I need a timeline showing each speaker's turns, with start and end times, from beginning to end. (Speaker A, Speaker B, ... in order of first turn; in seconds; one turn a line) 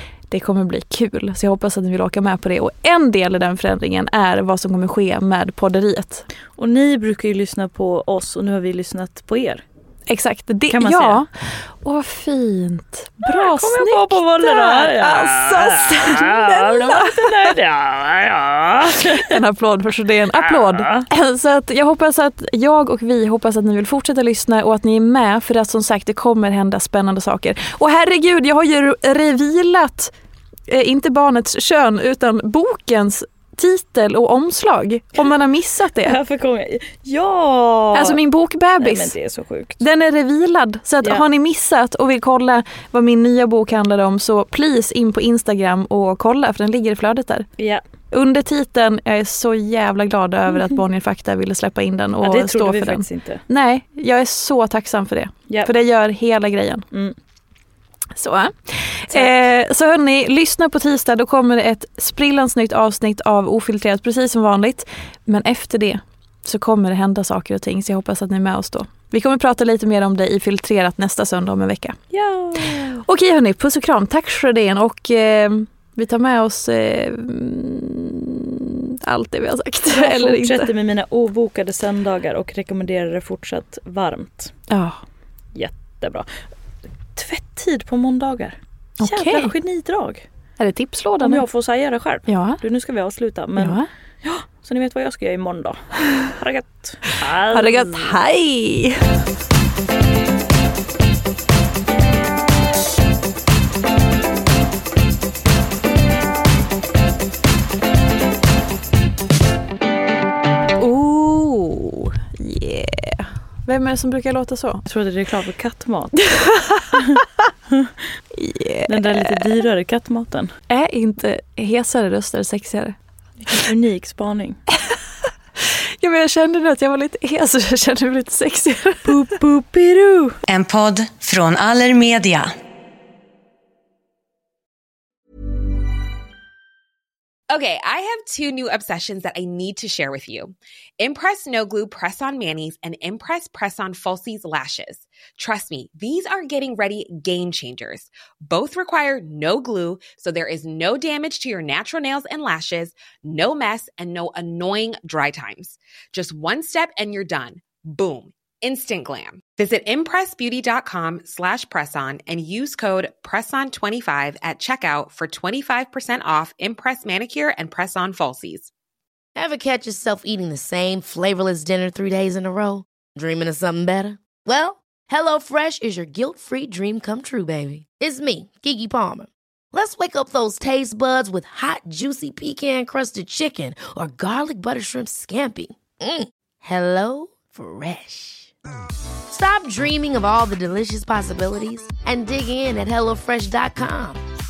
Speaker A: 0.3-6.2
Speaker B: 6.5-9.6
Speaker A: 10.1-17.5
Speaker B: 10.7-11.2
Speaker B: 13.2-19.4
Speaker A: 19.0-30.1
Speaker B: 20.3-21.1
Speaker A: 30.7-36.2
Speaker B: 36.0-38.2
Speaker A: 37.9-39.1
Speaker B: 38.8-39.8
Speaker A: 39.8-47.5
Speaker B: 47.6-47.8
Speaker A: 48.1-56.9
Speaker B: 52.2-53.4
Speaker A: 58.1-72.0
Speaker B: 72.1-73.0
Speaker A: 72.7-80.7
Speaker B: 79.9-84.5
Speaker A: 84.7-85.0
Speaker B: 85.5-86.5
Speaker B: 87.1-90.2
Speaker A: 89.0-89.5
Speaker A: 90.6-91.4
Speaker B: 91.2-98.1
Speaker A: 92.2-92.6
Speaker A: 93.5-93.9
Speaker A: 97.5-99.0
Speaker A: 110.8-114.8
Speaker B: 114.8-116.2
Speaker A: 116.3-117.2
Speaker A: 118.3-119.6
Speaker B: 118.9-120.5
Speaker A: 120.7-122.9
Speaker B: 123.4-124.6
Speaker A: 125.6-129.4
Speaker B: 129.0-130.4
Speaker C: 130.5-132.6
Speaker D: 137.5-168.7
Speaker E: 169.3-188.5
Speaker E: 189.3-194.2